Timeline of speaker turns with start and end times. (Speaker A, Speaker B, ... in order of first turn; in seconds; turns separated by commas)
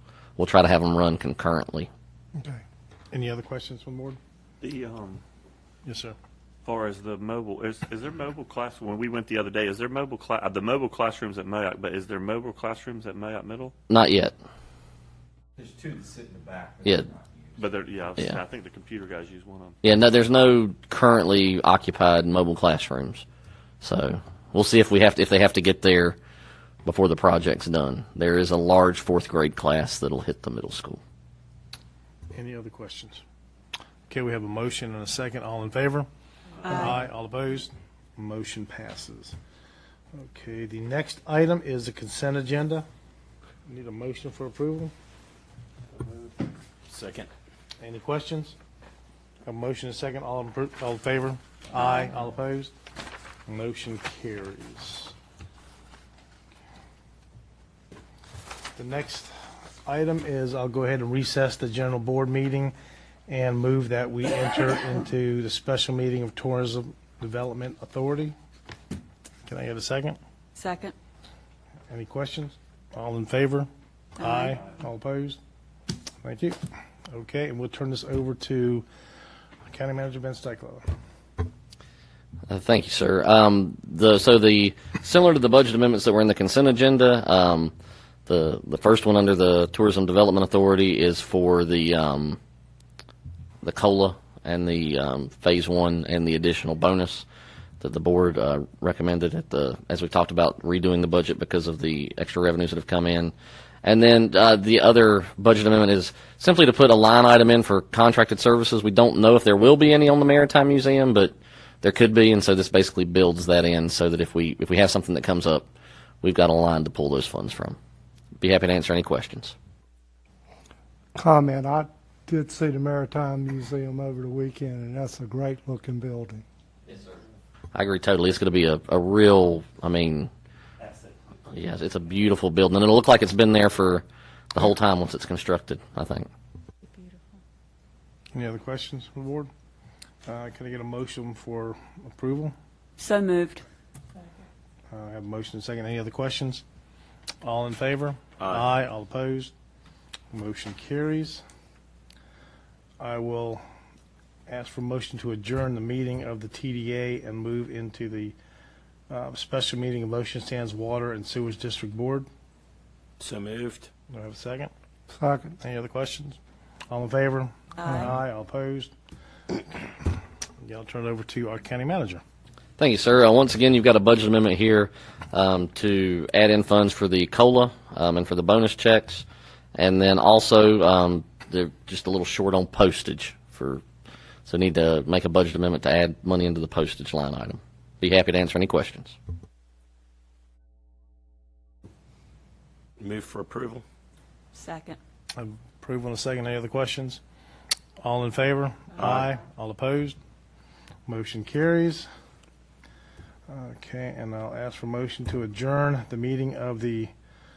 Speaker A: 0.4-1.9, Speaker B: 3.1-4.2, Speaker C: 4.6-5.2, Speaker B: 5.8-6.2, Speaker C: 6.7-13.7, Speaker A: 13.9-14.3, Speaker D: 15.6-17.8, Speaker A: 16.8-17.1, Speaker C: 17.6-19.8, Speaker A: 19.8-23.2, Speaker A: 23.8-26.2, Speaker A: 26.9-31.0, Speaker B: 32.3-33.2, Speaker B: 34.1-36.1, Speaker B: 36.6-39.4, Speaker E: 36.6-37.0, Speaker B: 40.1-42.9, Speaker B: 43.7-44.9, Speaker F: 46.9-47.3, Speaker B: 47.8-48.6, Speaker B: 49.5-52.7, Speaker E: 51.8-52.1, Speaker B: 53.5-55.1, Speaker B: 58.8-62.8, Speaker B: 63.3-68.3, Speaker B: 69.5-70.2, Speaker E: 70.6-71.0, Speaker B: 71.9-75.4, Speaker E: 74.2-74.6, Speaker B: 76.2-78.9, Speaker B: 79.7-80.9, Speaker A: 82.5-87.7, Speaker A: 88.3-92.4, Speaker A: 93.6-97.3, Speaker A: 97.8-103.3, Speaker A: 103.8-115.7, Speaker A: 116.2-117.8, Speaker A: 118.4-119.5, Speaker G: 121.2-126.4, Speaker A: 127.7-130.3, Speaker A: 131.5-136.3, Speaker E: 136.9-137.2, Speaker B: 138.3-139.5, Speaker B: 140.3-142.5, Speaker E: 143.0-143.6, Speaker B: 144.9-146.6, Speaker B: 147.4-149.5, Speaker F: 148.4-148.7, Speaker B: 150.3-151.4, Speaker B: 153.0-153.6, Speaker B: 154.5-158.4, Speaker B: 159.1-162.3, Speaker F: 163.2-163.9, Speaker B: 164.1-164.7, Speaker G: 165.2-165.6, Speaker B: 165.6-166.4, Speaker B: 166.9-168.9, Speaker E: 167.8-168.1, Speaker B: 170.6-172.2, Speaker A: 172.8-183.8, Speaker A: 184.5-189.2, Speaker F: 193.0-193.8, Speaker E: 194.5-195.0, Speaker B: 195.4-197.2, Speaker B: 198.0-200.2, Speaker F: 199.0-199.3, Speaker B: 201.1-202.1, Speaker B: 203.5-207.1